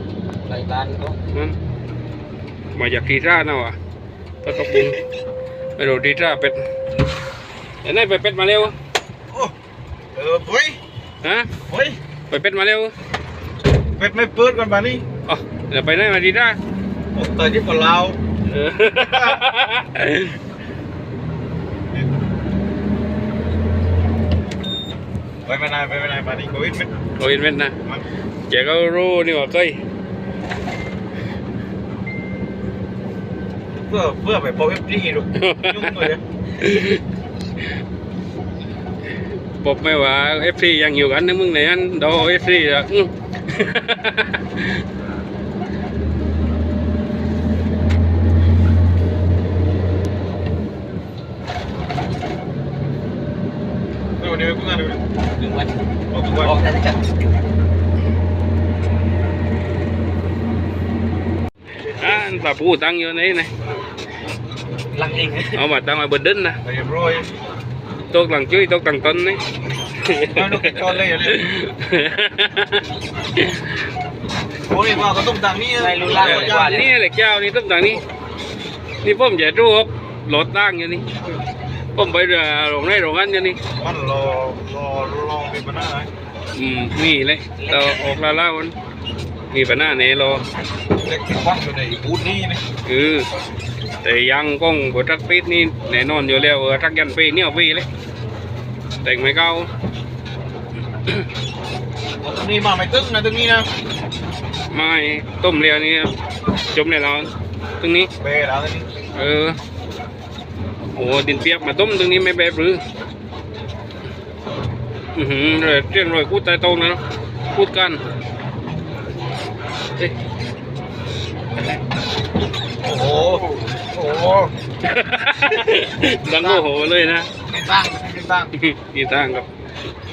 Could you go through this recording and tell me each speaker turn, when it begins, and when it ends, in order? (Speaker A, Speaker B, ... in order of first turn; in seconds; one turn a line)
Speaker A: 0.5-1.2
Speaker B: 2.7-3.8
Speaker B: 4.4-5.0
Speaker B: 5.8-6.6
Speaker B: 7.8-8.7
Speaker C: 9.3-9.5
Speaker C: 10.1-10.8
Speaker B: 11.2-11.5
Speaker C: 11.7-12.0
Speaker B: 12.3-12.9
Speaker C: 14.0-15.0
Speaker B: 15.3-16.6
Speaker C: 17.1-18.2
Speaker B: 18.5-20.4
Speaker C: 19.1-19.4
Speaker C: 25.4-26.9
Speaker B: 27.2-27.7
Speaker B: 28.5-29.8
Speaker C: 33.8-36.2
Speaker B: 35.4-37.0
Speaker B: 39.6-44.8
Speaker C: 54.2-55.0
Speaker A: 55.4-55.8
Speaker C: 56.1-56.5
Speaker A: 56.4-57.2
Speaker B: 61.9-63.5
Speaker A: 64.9-65.6
Speaker B: 65.5-66.6
Speaker C: 66.6-67.3
Speaker B: 68.1-69.4
Speaker B: 70.0-72.8
Speaker C: 70.3-71.5
Speaker B: 73.4-73.7
Speaker C: 74.6-76.8
Speaker A: 75.8-76.9
Speaker B: 76.2-78.0
Speaker B: 79.0-81.1
Speaker B: 81.9-83.6
Speaker C: 83.8-86.1
Speaker B: 86.5-88.7
Speaker A: 87.5-88.2
Speaker B: 89.5-90.4
Speaker C: 90.9-92.6
Speaker B: 92.8-93.3
Speaker B: 94.0-97.8
Speaker B: 99.0-99.7
Speaker C: 102.2-103.7
Speaker B: 104.7-106.1
Speaker B: 106.7-108.1
Speaker C: 108.2-108.9
Speaker B: 109.2-109.6
Speaker B: 111.0-112.8
Speaker B: 115.1-117.0
Speaker B: 117.5-118.0
Speaker C: 122.8-124.5
Speaker A: 123.2-123.7
Speaker B: 124.8-127.3
Speaker C: 125.4-125.7
Speaker C: 126.3-126.7
Speaker C: 127.4-128.5
Speaker B: 128.6-129.4